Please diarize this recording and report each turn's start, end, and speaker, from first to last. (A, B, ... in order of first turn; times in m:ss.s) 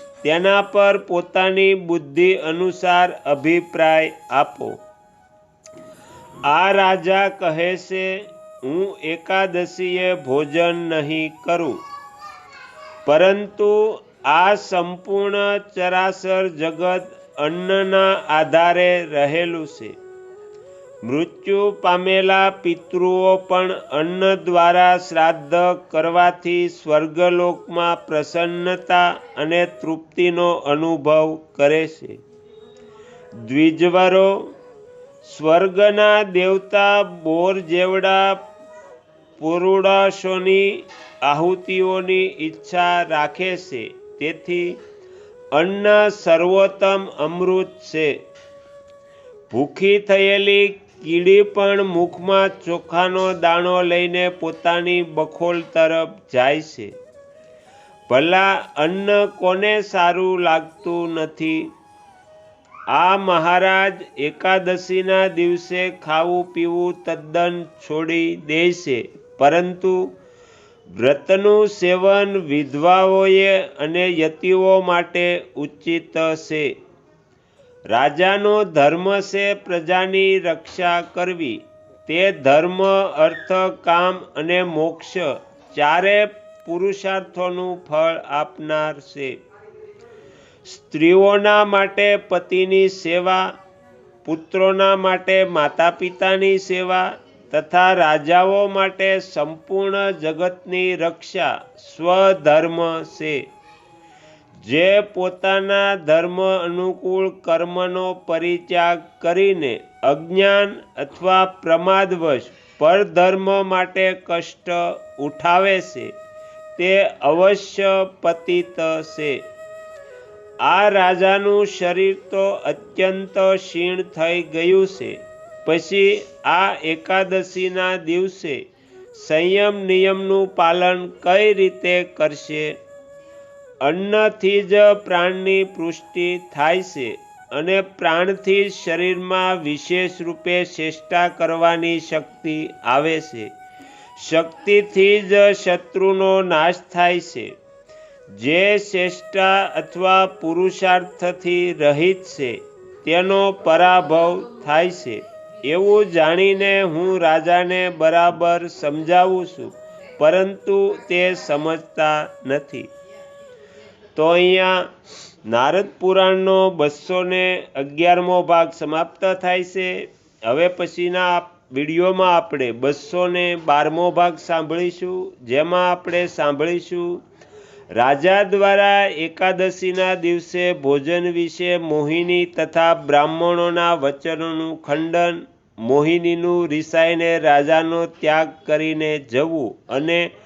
0:00.2-0:04.8 A
0:06.5-0:11.8 A
0:13.0-0:20.0 A
0:21.0-0:32.2 A
0:33.4-0:34.5 A
0:35.2-0:38.4 A
0:39.4-0:44.8 A
0:45.5-0:48.1 A
0:49.5-0:56.9 A
0:58.1-1:01.7 A
1:02.9-1:10.0 A
1:10.9-1:16.7 A
1:17.9-1:29.3 A
1:30.6-1:33.5 A
1:34.2-1:43.4 A
1:44.6-1:56.1 A
1:56.8-1:59.4 A
2:00.6-2:08.6 A
2:09.1-2:12.7 A
2:13.8-2:23.5 A
2:24.2-2:27.5 A
2:28.3-2:42.9 A
2:44.1-2:44.9 A
2:45.4-2:57.2 A
2:57.9-3:10.3 A